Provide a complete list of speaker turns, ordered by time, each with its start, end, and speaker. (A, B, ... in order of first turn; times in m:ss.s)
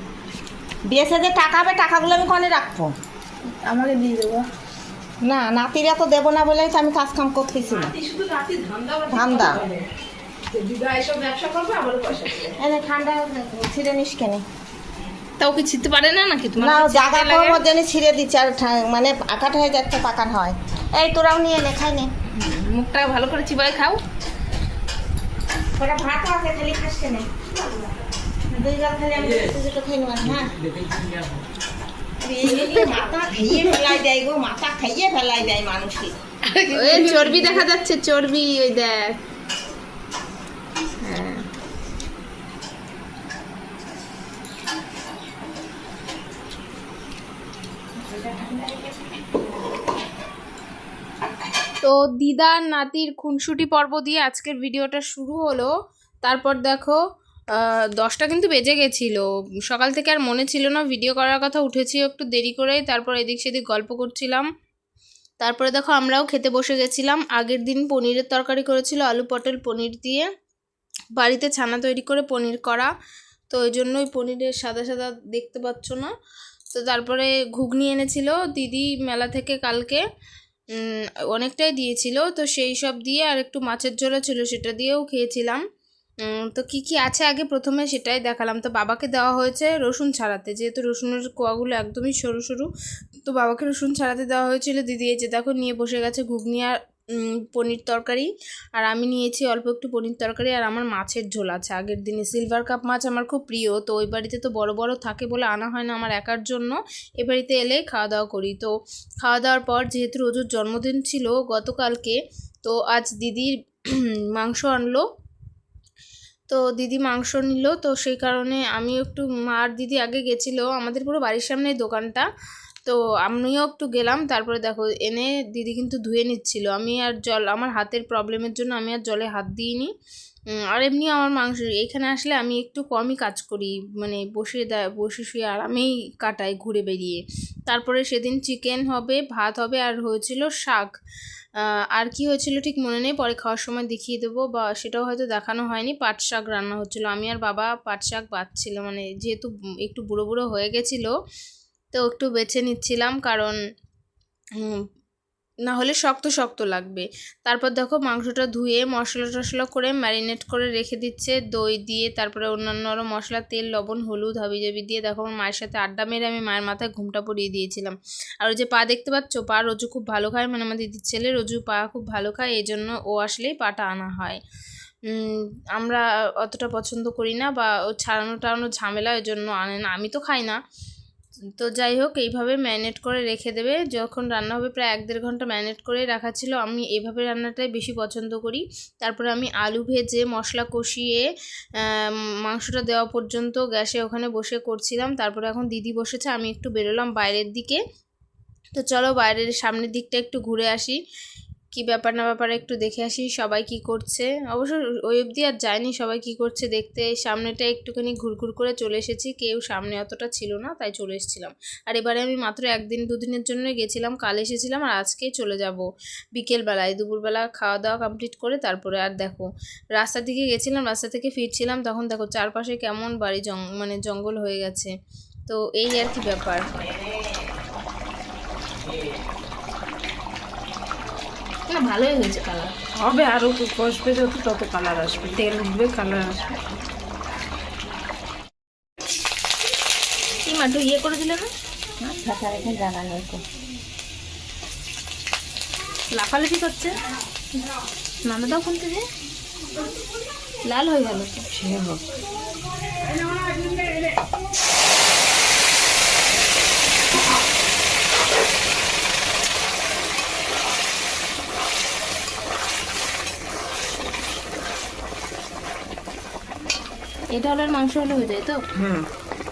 0:00.9-0:02.9 A
0:03.5-0:04.4 B
0:05.2-0:07.9 A
0:07.8-0:09.8 B
0:09.1-0:09.6 A
0:10.5-0:12.6 B
0:12.6-0:14.4 A
0:15.4-0:17.6 C
0:16.6-0:22.1 A
0:22.4-0:24.0 C
0:25.8-0:27.3 A
0:28.5-0:30.6 A
0:32.2-0:36.1 A
0:36.5-0:37.6 B
0:36.7-0:39.2 C
0:41.0-0:41.4 C
0:51.8-0:55.7 C
0:56.2-0:57.0 C
0:57.6-1:04.5 C
1:05.4-1:10.3 C
1:11.2-1:12.9 C
1:13.5-1:16.1 C
1:16.7-1:20.0 C
1:20.7-1:25.6 C
1:26.2-1:32.7 C
1:33.2-1:55.0 C
1:56.5-2:02.2 C
2:02.8-2:09.9 C
2:10.6-2:20.9 C
2:21.9-2:31.1 C
2:31.9-2:33.6 C
2:35.7-2:54.4 C
2:55.1-3:00.6 C
3:01.6-3:11.3 C
3:11.8-3:17.8 C
3:18.8-3:21.0 C
3:21.7-3:44.9 C
3:45.5-3:46.6 C
3:51.7-3:53.5 C
3:53.0-3:55.9 B
3:55.1-3:56.5 C
4:00.4-4:01.5 C
4:02.0-4:03.4 A
4:06.1-4:06.9 C
4:08.2-4:09.0 C
4:10.6-4:11.5 C
4:11.5-4:12.0 A
4:27.3-4:28.6 C
4:28.8-4:29.1 A